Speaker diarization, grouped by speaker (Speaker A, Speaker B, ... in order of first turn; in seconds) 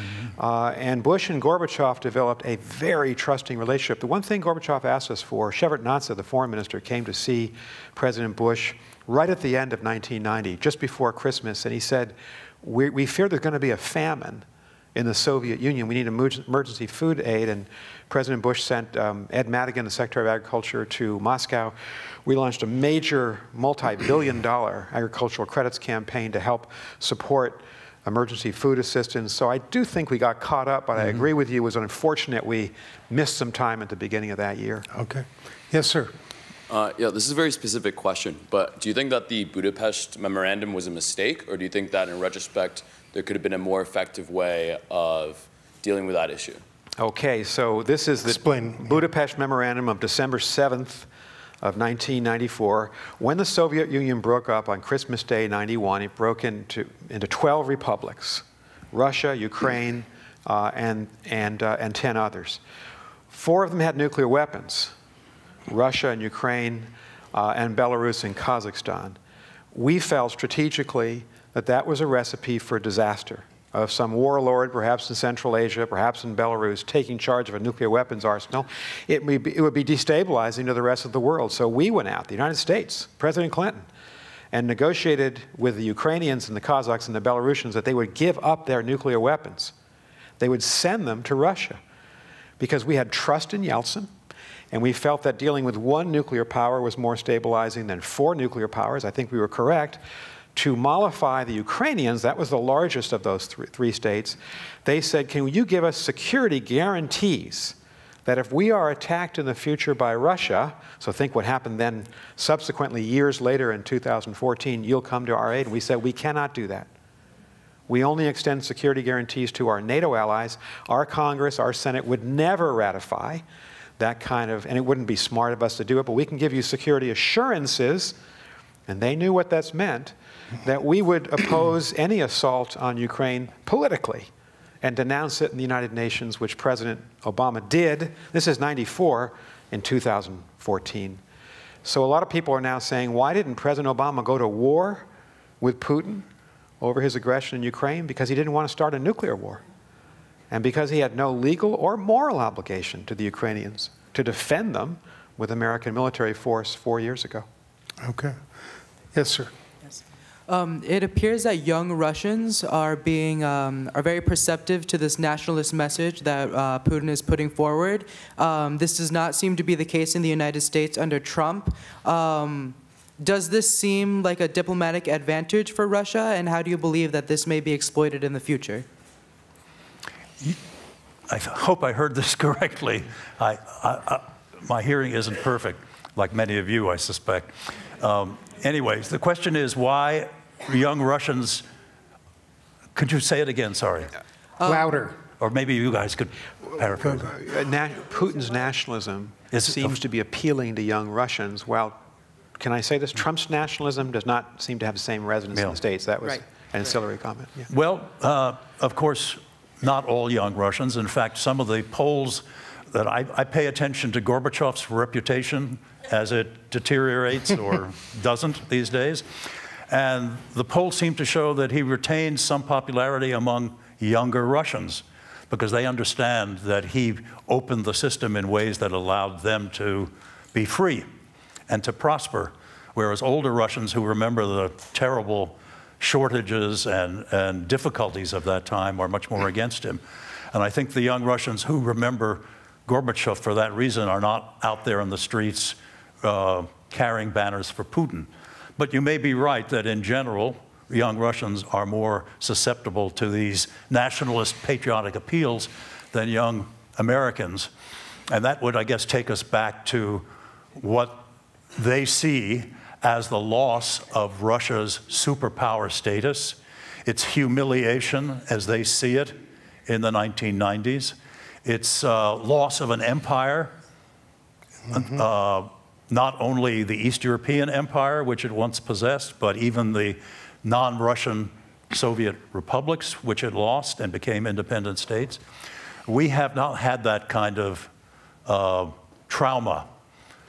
Speaker A: 0.2-34.9, 47.0-51.1, 51.6-62.6, 63.3-64.9, 65.7-69.2, 69.7-83.9, 84.5-89.7, 90.4-91.8, 92.6-94.1, 94.7-100.0, 100.5-116.9, 117.9-123.4, 124.0-128.2, 128.9-134.3, 134.8-141.2, 141.8-145.1, 145.6-146.3, 146.8-149.6, 150.5-157.5, 197.1-202.0, 202.6-207.7
Speaker B: 34.9-36.1, 48.3-49.0, 158.0-158.4, 159.1-159.5, 194.6-195.2
Speaker C: 36.7-46.6
Speaker D: 160.5-178.9
Speaker E: 181.3-191.7, 192.9-194.1, 195.4-197.3, 199.5-200.0, 207.7-219.3, 219.9-231.1, 231.7-257.7, 258.3-260.3, 260.8-273.7, 274.9-285.4, 286.1-287.9, 288.5-289.9